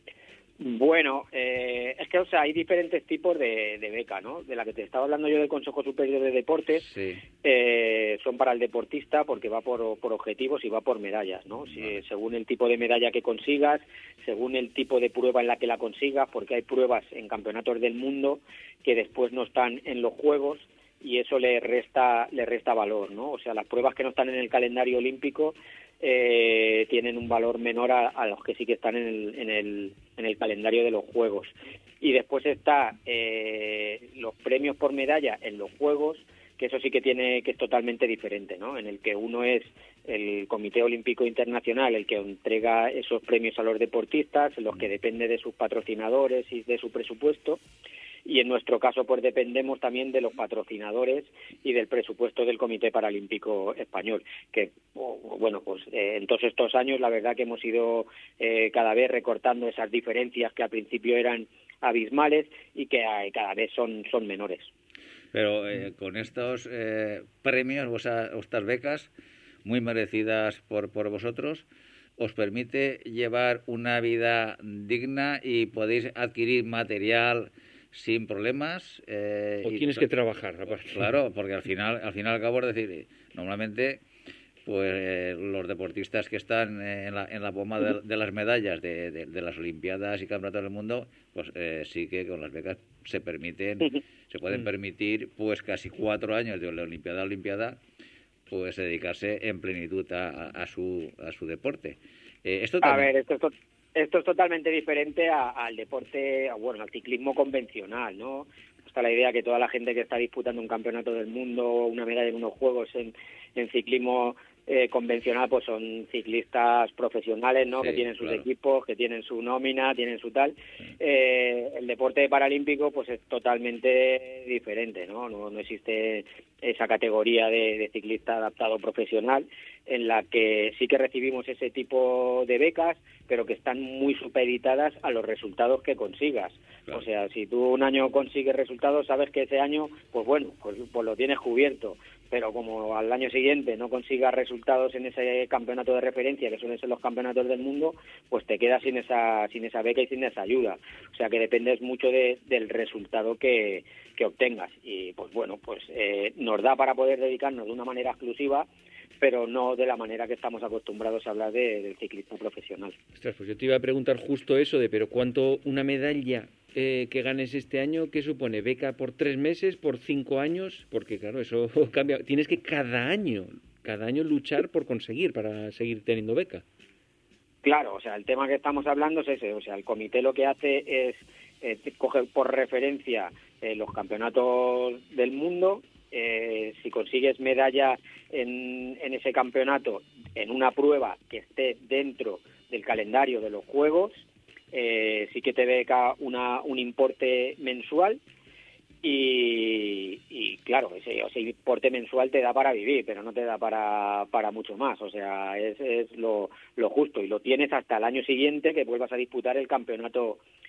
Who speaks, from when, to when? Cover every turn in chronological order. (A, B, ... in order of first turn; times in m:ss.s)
0:00.6-0:06.9 A
0:06.9-0:07.2 B
0:07.4-0:47.6 A
0:11.7-0:12.0 B
0:48.2-1:04.7 A
1:05.3-1:09.1 B
1:09.6-1:11.6 B
1:12.2-1:20.1 B
1:19.6-1:21.1 C
1:20.7-1:24.0 B
1:24.6-1:37.8 B
1:38.5-1:43.1 B
1:42.8-2:38.7 A
1:57.8-1:58.4 B
2:39.2-2:42.9 A
2:43.2-2:56.6 C
2:57.6-3:18.2 A
3:19.0-3:30.4 A